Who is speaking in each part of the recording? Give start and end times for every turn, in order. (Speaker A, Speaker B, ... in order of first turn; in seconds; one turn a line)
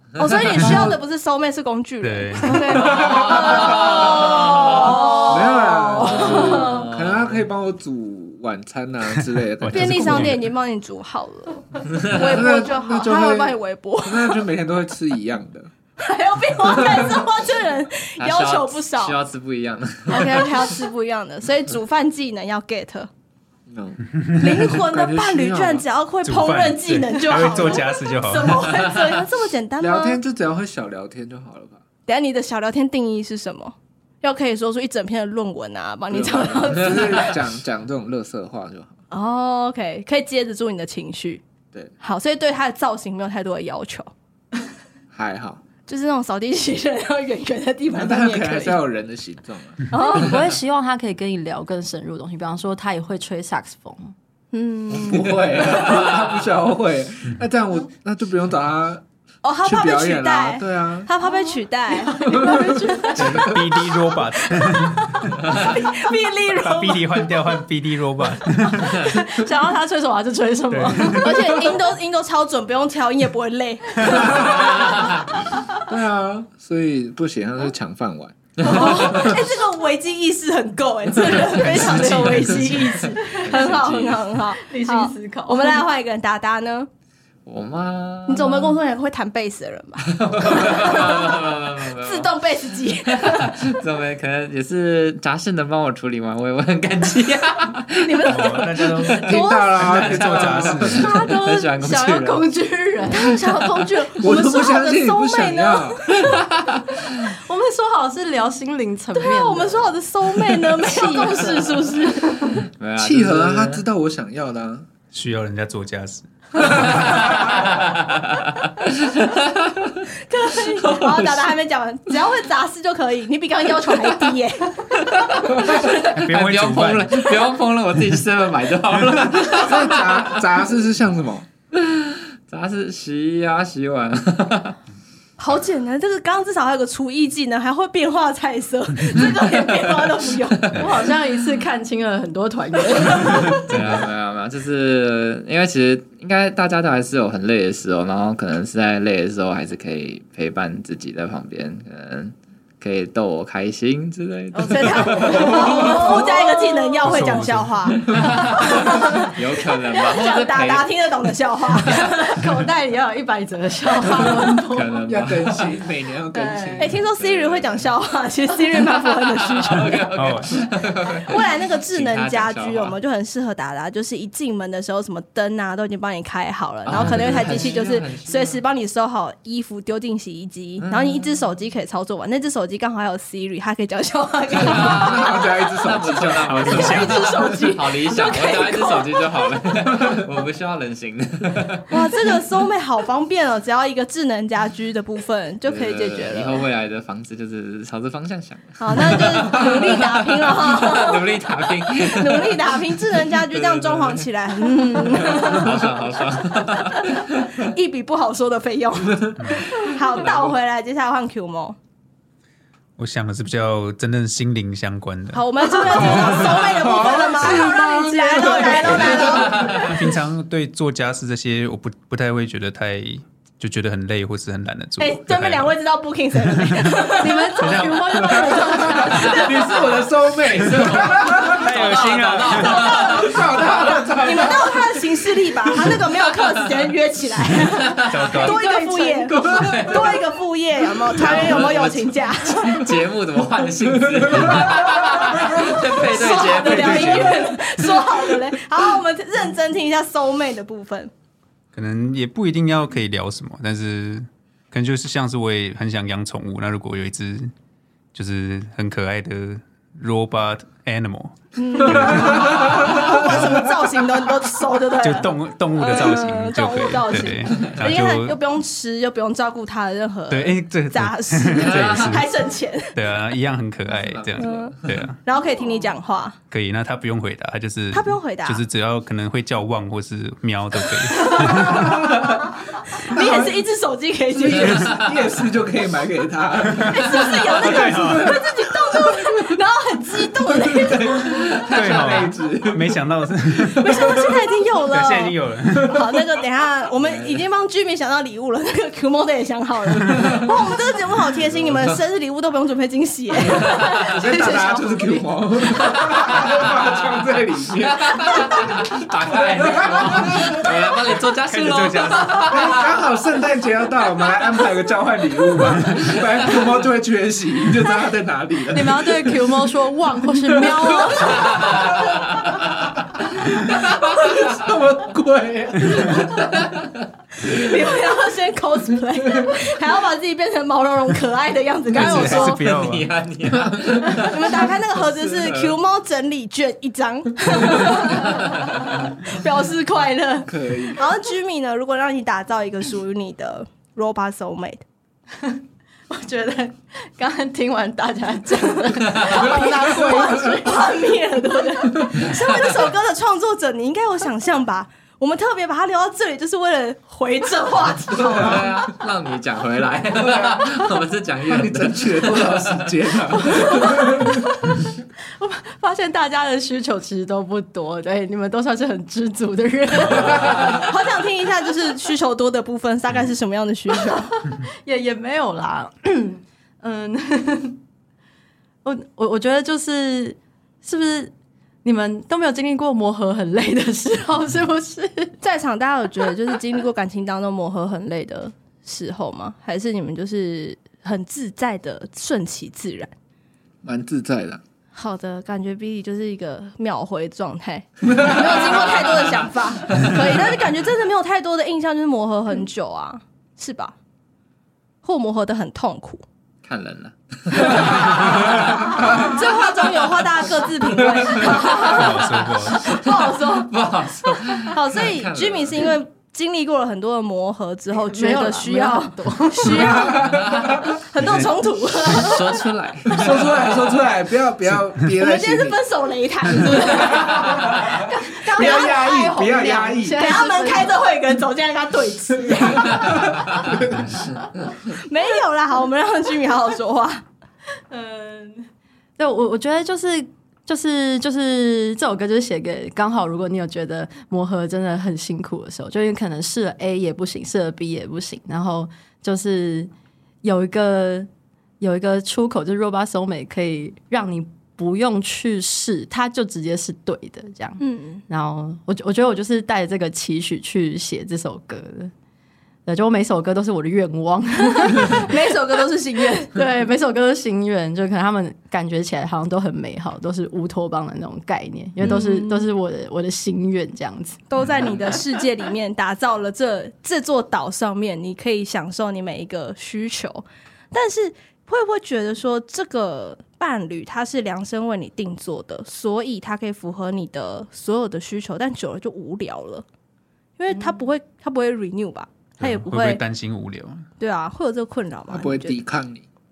Speaker A: 0.1-6.9
Speaker B: 0.5-1.0
Speaker C: 0.6-0.9
Speaker C: 2.0-3.1
Speaker D: 2.9-5.1
Speaker B: 3.0-3.9
Speaker B: 5.0-10.4
Speaker D: 6.0-7.5
Speaker C: 9.6-10.5
Speaker A: 9.7-14.5
Speaker B: 12.1-15.7
Speaker A: 16.0-19.2
Speaker B: 16.6-17.2
Speaker D: 18.2-20.7
Speaker A: 20.1-23.1
Speaker B: 23.7-25.9
Speaker A: 24.4-30.2
Speaker C: 26.2-29.0
Speaker B: 29.8-31.8
Speaker A: 32.0-37.4
Speaker B: 36.1-38.9
Speaker A: 39.1-41.4
Speaker A: 42.0-44.1
Speaker B: 45.1-45.6
Speaker A: 45.9-48.8
Speaker B: 47.9-49.8
Speaker A: 49.9-50.4
Speaker E: 50.0-54.1
Speaker A: 54.5-55.4
Speaker B: 55.0-59.0
Speaker D: 55.6-56.3
Speaker A: 59.4-62.9
Speaker B: 59.6-61.1
Speaker E: 61.2-63.5
Speaker B: 62.2-63.5
Speaker C: 63.1-65.9
Speaker A: 64.5-67.5
Speaker C: 66.5-69.3
Speaker E: 68.8-71.7
Speaker C: 70.7-71.5
Speaker A: 71.0-74.7
Speaker B: 74.0-74.9
Speaker D: 74.7-75.1
Speaker B: 75.8-79.3
Speaker A: 78.6-86.9
Speaker D: 78.9-79.3
Speaker C: 81.2-83.1
Speaker D: 82.1-84.3
Speaker E: 83.2-83.8
Speaker E: 84.5-85.8
Speaker D: 87.5-88.7
Speaker A: 88.3-93.8
Speaker D: 90.1-92.3
Speaker D: 93.0-102.5
Speaker A: 98.0-99.7
Speaker C: 98.3-101.2
Speaker B: 99.2-101.1
Speaker E: 101.0-103.9
Speaker A: 103.1-106.3
Speaker B: 104.2-106.4
Speaker E: 107.2-109.9
Speaker A: 109.2-112.5
Speaker E: 110.5-112.6
Speaker D: 112.8-113.8
Speaker B: 113.0-114.9
Speaker C: 115.1-117.3
Speaker D: 117.1-120.0
Speaker A: 120.2-126.0
Speaker D: 120.7-121.5
Speaker D: 125.1-130.4
Speaker C: 125.8-127.2
Speaker B: 129.5-131.5
Speaker D: 131.7-134.8
Speaker A: 135.4-140.8
Speaker D: 140.5-140.9
Speaker E: 140.7-143.7
Speaker C: 143.3-144.0
Speaker D: 143.5-155.7
Speaker E: 154.5-156.6
Speaker A: 154.8-162.5
Speaker B: 155.5-156.0
Speaker C: 157.0-158.3
Speaker D: 158.1-161.1
Speaker E: 158.8-159.2
Speaker E: 161.8-165.0
Speaker D: 164.2-165.7
Speaker B: 165.0-167.0
Speaker E: 166.3-166.9
Speaker A: 166.8-170.1
Speaker D: 167.2-167.8
Speaker D: 168.9-172.9
Speaker C: 169.7-170.7
Speaker A: 171.2-185.5
Speaker D: 176.8-178.6
Speaker D: 180.8-181.3
Speaker D: 184.6-191.9
Speaker B: 184.8-186.6
Speaker C: 186.3-187.5
Speaker A: 186.7-189.6
Speaker B: 189.9-190.2
Speaker A: 191.9-196.6
Speaker D: 195.6-202.9
Speaker A: 198.8-205.8
Speaker B: 203.6-204.2
Speaker D: 205.1-207.6
Speaker A: 206.9-211.8
Speaker B: 209.1-209.6
Speaker C: 209.4-209.7
Speaker D: 209.8-210.6
Speaker C: 213.0-216.5
Speaker A: 215.3-219.9
Speaker B: 215.9-219.9
Speaker C: 217.4-217.7
Speaker C: 219.6-225.8
Speaker A: 225.0-229.8
Speaker C: 226.4-228.6
Speaker E: 227.2-229.6
Speaker B: 228.2-235.1
Speaker D: 229.1-229.8
Speaker D: 230.5-233.6
Speaker C: 231.5-233.0
Speaker A: 232.4-242.9
Speaker D: 237.7-238.6
Speaker C: 238.1-238.6
Speaker E: 238.4-239.5
Speaker D: 239.1-240.3
Speaker B: 239.6-240.1
Speaker D: 241.0-247.5
Speaker B: 243.8-248.0
Speaker A: 245.3-251.1
Speaker C: 251.7-257.5
Speaker C: 258.1-263.6
Speaker A: 261.6-273.0
Speaker B: 262.3-263.4
Speaker C: 265.0-268.4
Speaker C: 270.3-272.3
Speaker D: 271.6-272.2
Speaker C: 272.9-275.2
Speaker D: 273.9-275.1
Speaker A: 274.4-276.4
Speaker C: 276.5-281.9
Speaker A: 277.9-278.6
Speaker A: 281.2-281.9
Speaker B: 281.5-282.4
Speaker A: 283.0-284.9
Speaker B: 283.1-283.5
Speaker B: 284.6-289.6
Speaker D: 284.7-285.1
Speaker C: 286.7-287.0
Speaker A: 286.9-291.6
Speaker C: 287.6-288.4
Speaker B: 290.4-294.3
Speaker D: 291.5-292.3
Speaker C: 291.7-294.3
Speaker A: 293.8-303.8
Speaker C: 294.9-296.0
Speaker D: 297.0-297.4
Speaker E: 303.7-305.3
Speaker D: 303.8-304.1
Speaker B: 303.9-310.7
Speaker D: 306.1-306.8
Speaker D: 308.0-312.8
Speaker C: 311.4-312.6
Speaker B: 312.4-319.7
Speaker E: 318.7-321.9
Speaker B: 320.3-322.6
Speaker B: 323.4-326.8
Speaker D: 323.9-324.4
Speaker A: 327.4-332.6
Speaker C: 331.9-333.1
Speaker D: 332.0-334.7
Speaker B: 333.6-334.2
Speaker A: 334.1-344.8
Speaker B: 340.4-341.0
Speaker E: 346.1-350.9
Speaker A: 349.1-358.7
Speaker B: 358.1-358.7
Speaker D: 358.3-362.9
Speaker B: 360.3-360.6
Speaker B: 361.5-364.4
Speaker D: 363.4-363.8
Speaker E: 363.6-364.7
Speaker E: 365.4-370.9
Speaker A: 370.4-374.4
Speaker E: 374.5-377.8
Speaker E: 378.8-381.3
Speaker E: 381.8-385.3
Speaker A: 385.4-393.1
Speaker B: 393.8-394.6
Speaker A: 394.9-403.9
Speaker A: 405.0-406.2
Speaker D: 406.6-409.2
Speaker A: 407.7-413.7
Speaker B: 407.8-408.3
Speaker B: 408.8-409.4
Speaker B: 411.1-411.5
Speaker C: 411.8-413.1
Speaker D: 412.8-415.9
Speaker A: 414.6-420.2
Speaker E: 418.1-420.0
Speaker B: 419.7-421.0
Speaker D: 420.3-420.8
Speaker A: 421.0-422.5
Speaker C: 421.2-421.5
Speaker D: 422.1-423.9
Speaker B: 423.1-425.8
Speaker A: 425.1-427.6
Speaker B: 426.8-427.9
Speaker E: 427.0-431.0
Speaker A: 428.3-429.1
Speaker B: 428.5-430.3
Speaker A: 430.1-433.2
Speaker B: 432.8-434.3
Speaker A: 434.9-437.2
Speaker E: 437.9-438.7
Speaker E: 439.2-449.9
Speaker E: 450.4-451.3
Speaker E: 451.8-462.1
Speaker A: 457.8-458.2
Speaker E: 462.9-465.3
Speaker A: 465.1-466.6
Speaker E: 466.5-474.4
Speaker A: 472.0-472.6
Speaker A: 474.5-489.8
Speaker A: 490.6-493.2
Speaker C: 492.6-494.0
Speaker A: 494.2-495.8
Speaker B: 495.3-496.2